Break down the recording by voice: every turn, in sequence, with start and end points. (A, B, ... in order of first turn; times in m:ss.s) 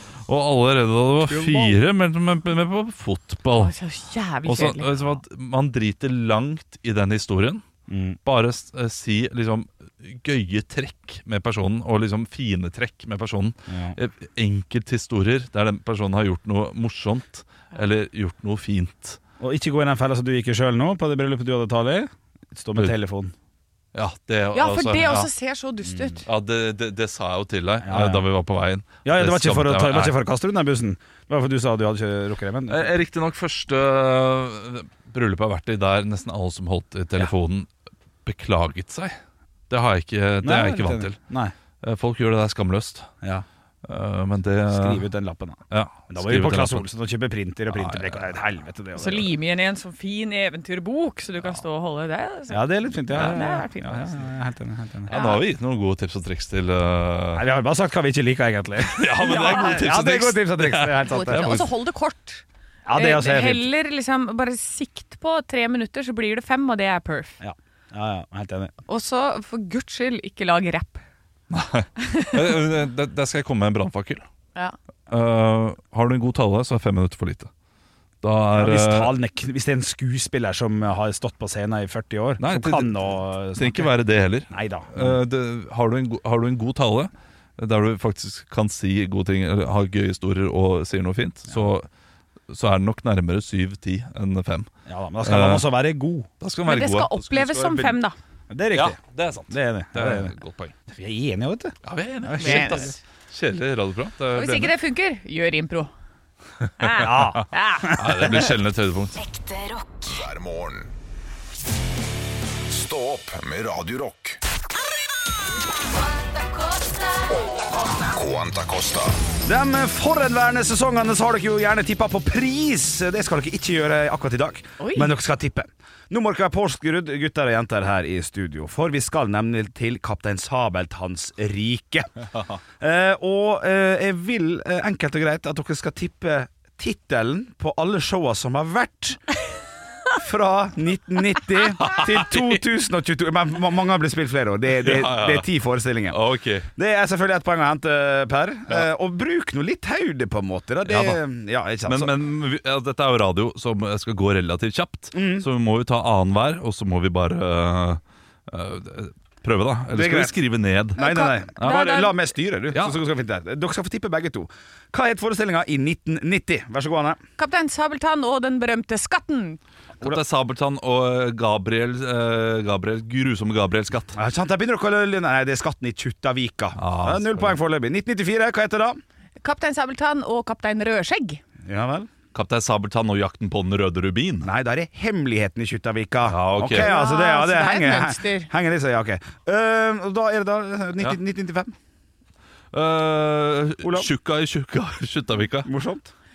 0:00.2-0:03.7 A
0:01.2-0:01.8 B
0:03.5-0:05.1 C
0:04.4-0:07.6 A
0:07.9-0:08.2 B
0:08.2-0:19.2 A
0:13.7-0:14.0 B
0:19.4-0:23.3 B
0:23.9-0:25.3 A
0:24.5-0:26.2 C
0:25.9-0:26.1 B
0:26.2-0:30.2 A
0:27.8-0:28.2 B
0:29.0-0:32.9 B
0:32.7-0:37.7 A
0:38.2-0:39.2 A
0:39.7-0:41.2 A
0:40.4-0:41.5 B
0:41.8-0:43.1 A
0:43.8-0:45.0 A
0:44.7-0:49.3 B
0:45.7-0:46.9 A
0:47.7-0:48.2 A
0:49.0-0:54.2 C
0:52.5-0:55.2 B
0:53.1-0:53.4 A
0:55.1-0:57.4 A
0:55.1-0:55.4 C
0:57.3-1:01.6 B
0:58.9-1:01.6 A
0:59.2-0:59.8 C
1:01.0-1:07.4 C
1:02.8-1:03.7 B
1:07.4-1:08.7 B
1:08.9-1:11.0 C
1:11.5-1:14.2 A
1:12.0-1:12.5 C
1:15.1-1:17.5 A
1:18.2-1:19.1 A
1:18.5-1:23.9 B
1:22.4-1:31.9 A
1:24.5-1:25.2 B
1:32.5-1:34.7 A
1:34.9-1:36.3 B
1:35.2-1:35.7 A
1:36.4-1:38.0 A
1:36.6-1:38.2 C
1:38.5-1:39.0 B
1:38.7-1:40.7 A
1:39.5-1:40.3 B
1:40.9-1:42.9 B
1:41.8-1:44.7 A
1:42.4-1:42.9 C
1:44.3-1:45.9 C
1:46.8-1:48.0 C
1:46.8-1:47.4 A
1:47.0-1:48.3 B
1:48.0-1:49.2 A
1:49.2-1:50.1 D
1:50.1-1:50.9 E
1:52.7-1:54.4 E
1:56.2-1:57.2 D
1:58.0-1:59.2 E
1:59.4-2:12.1 B
2:04.8-2:05.1 C
2:12.8-2:19.2 B
2:20.1-2:26.2 B
2:21.8-2:22.6 A
2:24.8-2:25.5 A
2:26.1-2:26.7 A
2:26.8-2:32.1 B
2:30.8-2:31.2 A
2:31.8-2:41.0 A
2:35.1-2:35.5 B
2:39.9-2:40.4 B
2:41.0-2:42.2 C
2:41.0-2:47.2 B
2:42.7-2:43.0 A
2:47.4-2:49.6 C
2:50.0-2:54.2 A
2:54.1-2:59.0 B
2:56.8-2:57.6 A
2:59.4-3:01.4 C
3:01.6-3:02.1 B
3:02.3-3:04.5 A
3:04.4-3:11.7 B
3:06.3-3:06.9 A
3:06.7-3:08.5 C
3:12.7-3:15.7 A
3:13.8-3:14.1 B
3:15.6-3:16.1 B